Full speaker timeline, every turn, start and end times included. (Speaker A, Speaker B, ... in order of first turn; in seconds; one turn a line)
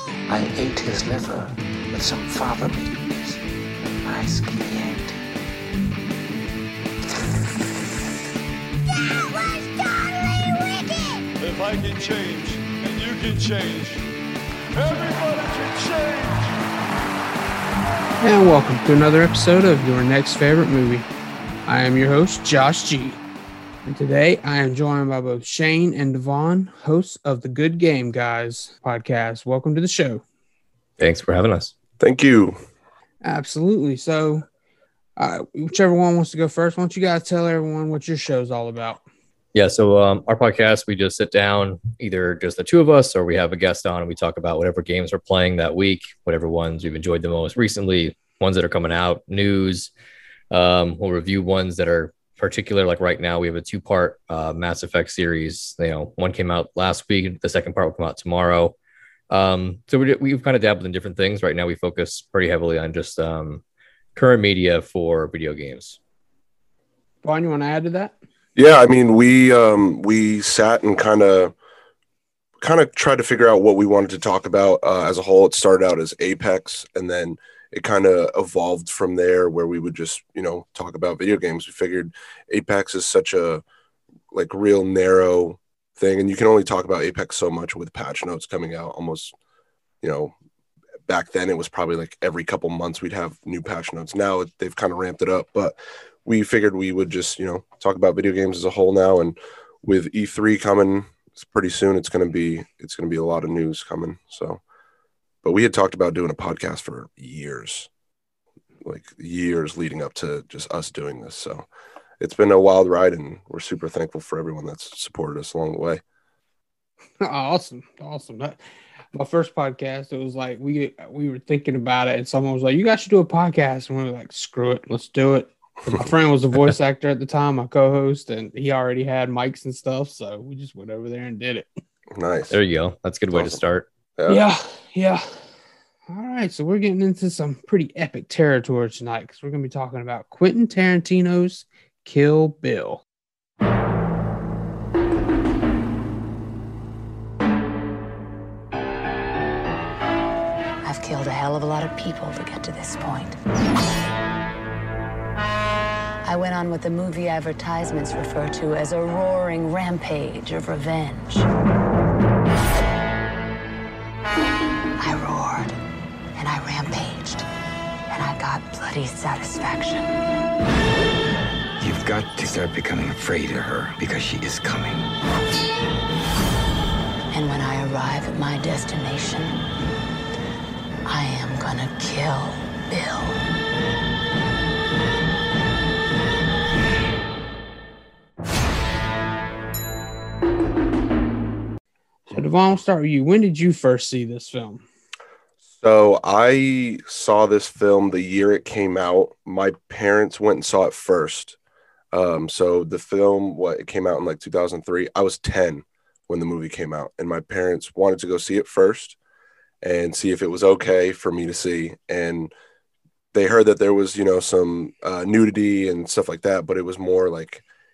Speaker A: 0.3-3.4
Speaker A: 4.0-5.2
Speaker B: 11.4-14.1
Speaker B: 14.7-16.6
Speaker C: 18.2-21.1
Speaker C: 21.7-23.2
Speaker C: 23.9-30.2
Speaker D: 31.0-31.7
Speaker E: 32.0-32.6
Speaker C: 33.2-34.5
Speaker C: 35.2-39.0
Speaker D: 39.5-49.9
Speaker D: 50.5-58.8
Speaker D: 59.3-63.6
Speaker D: 64.1-66.0
Speaker C: 67.2-68.1
Speaker E: 68.6-71.5
Speaker E: 72.6-83.6
Speaker E: 84.3-89.3
Speaker E: 90.0-90.3
Speaker E: 91.1-104.6
Speaker E: 105.4-107.9
Speaker E: 108.8-111.7
Speaker E: 112.2-116.0
Speaker C: 117.2-118.6
Speaker C: 119.1-131.7
Speaker E: 132.1-132.6
Speaker D: 132.5-133.9
Speaker E: 133.3-133.6
Speaker E: 134.2-134.4
Speaker C: 134.3-135.3
Speaker C: 136.1-143.0
Speaker F: 150.8-153.4
Speaker F: 156.2-161.5
Speaker F: 165.0-165.8
Speaker F: 166.3-167.5
Speaker F: 168.1-170.2
Speaker A: 171.8-175.1
Speaker F: 177.3-179.6
Speaker F: 181.1-183.4
Speaker C: 192.3-194.8
Speaker E: 195.8-201.6
Speaker E: 202.1-209.2
Speaker E: 209.8-212.5
Speaker E: 213.3-217.6